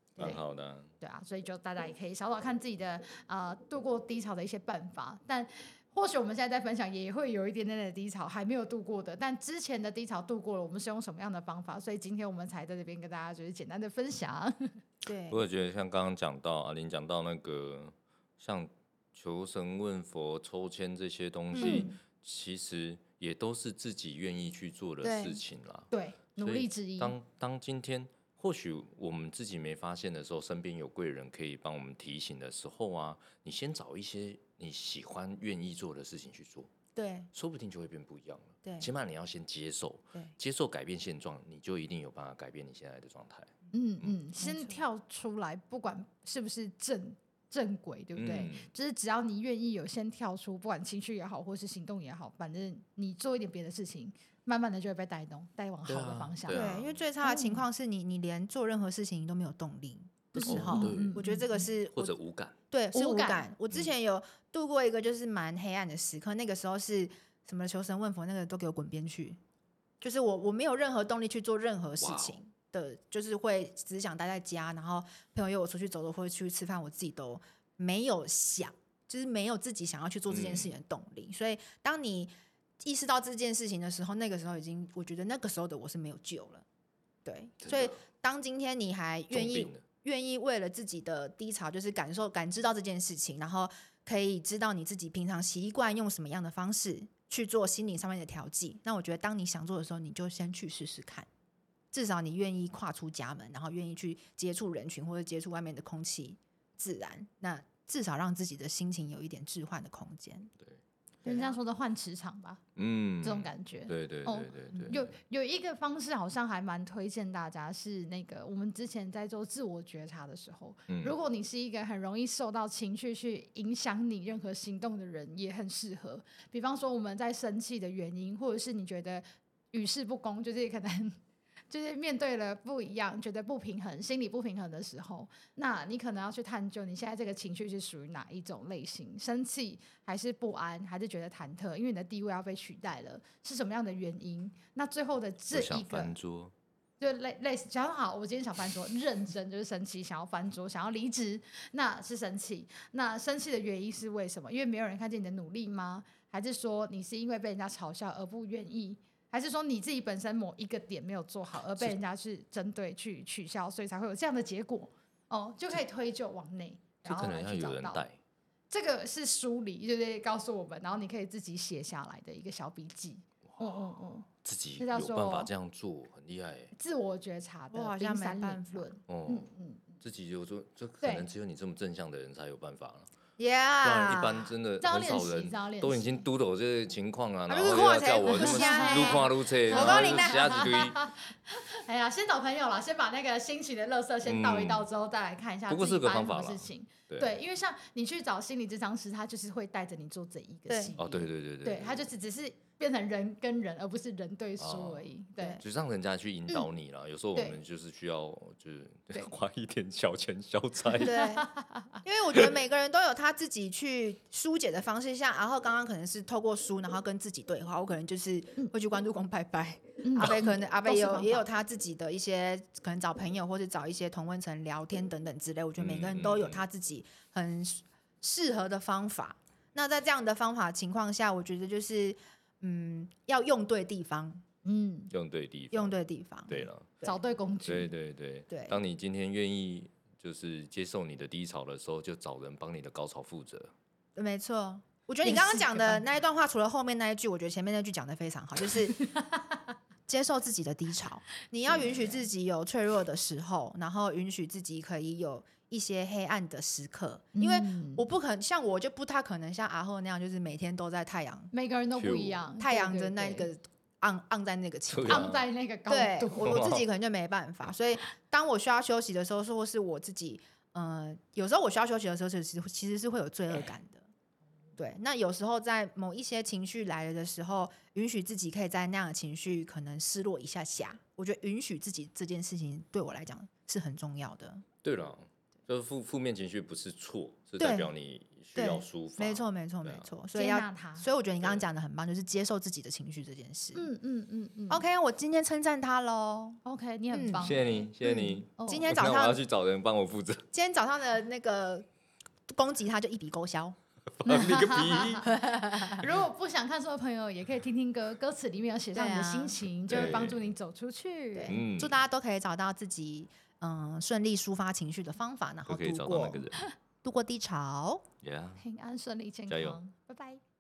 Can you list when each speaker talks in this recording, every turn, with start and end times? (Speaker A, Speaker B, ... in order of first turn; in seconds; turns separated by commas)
Speaker A: 0.2-0.9, Speaker B: 1.0-14.7, Speaker C: 15.1-15.4, Speaker A: 15.3-36.7, Speaker C: 21.5-21.9, Speaker B: 21.6-22.0, Speaker C: 25.0-25.4, Speaker B: 25.9-27.2, Speaker C: 37.0-37.3, Speaker A: 37.3-43.5, Speaker C: 38.6-38.9, Speaker B: 43.7-56.7, Speaker C: 44.4-44.8, Speaker A: 48.2-48.7, Speaker A: 55.9-57.0, Speaker C: 56.5-62.2, Speaker B: 57.2-57.6, Speaker B: 60.3-61.6, Speaker A: 60.5-61.2, Speaker A: 61.9-62.5, Speaker C: 62.7-69.4, Speaker B: 62.9-63.4, Speaker C: 70.0-86.7, Speaker A: 72.0-72.4, Speaker A: 80.3-80.7, Speaker C: 87.2-101.3, Speaker A: 87.6-87.9, Speaker A: 89.3-89.8, Speaker C: 101.9-110.5, Speaker C: 111.2-111.6, Speaker B: 111.2-112.6, Speaker A: 112.8-115.1, Speaker B: 113.2-131.2, Speaker A: 120.9-121.2, Speaker B: 131.7-146.1, Speaker A: 145.5-146.5, Speaker B: 147.0-168.1, Speaker A: 167.0-168.2, Speaker B: 168.7-175.5, Speaker A: 174.4-176.7, Speaker B: 176.8-179.9, Speaker C: 177.7-178.9, Speaker A: 179.1-183.1, Speaker B: 181.0-181.3, Speaker C: 183.4-184.5, Speaker A: 183.8-191.0, Speaker B: 184.8-186.2, Speaker C: 187.5-190.4, Speaker B: 188.3-205.6, Speaker A: 194.2-194.9, Speaker A: 195.7-197.4, Speaker C: 200.7-200.9, Speaker A: 201.0-202.1, Speaker A: 204.6-205.1, Speaker A: 205.6-211.2, Speaker B: 211.0-212.0, Speaker C: 211.0-211.5, Speaker C: 212.0-234.4, Speaker B: 220.0-221.4, Speaker A: 225.8-226.6, Speaker B: 234.7-235.1, Speaker A: 235.1-236.0, Speaker C: 235.7-237.2, Speaker A: 236.5-237.0, Speaker B: 237.0-237.9, Speaker A: 237.7-243.7, Speaker C: 238.5-238.8, Speaker C: 244.2-249.0, Speaker B: 245.2-246.0, Speaker B: 249.0-249.6, Speaker C: 250.1-261.5, Speaker A: 251.7-252.3, Speaker B: 257.4-258.1, Speaker B: 261.5-263.5, Speaker A: 262.0-262.4, Speaker C: 262.6-265.3, Speaker A: 264.9-265.4, Speaker B: 265.1-266.6, Speaker C: 265.9-274.1, Speaker A: 266.4-266.9, Speaker C: 274.8-284.6, Speaker A: 284.8-290.1, Speaker C: 287.6-287.9, Speaker C: 288.6-293.9, Speaker B: 290.4-291.1, Speaker B: 293.8-294.8, Speaker C: 294.7-296.6, Speaker B: 296.6-298.9, Speaker C: 297.1-299.4, Speaker A: 297.4-300.4, Speaker C: 300.5-301.9, Speaker C: 302.5-303.8, Speaker A: 304.2-305.3, Speaker B: 304.2-311.6, Speaker C: 305.3-306.0, Speaker C: 308.9-310.3, Speaker A: 309.9-310.5, Speaker C: 311.3-316.5, Speaker A: 311.5-312.0, Speaker A: 315.7-316.6, Speaker C: 317.0-318.1, Speaker A: 318.2-318.6, Speaker B: 318.6-320.4, Speaker A: 319.5-319.8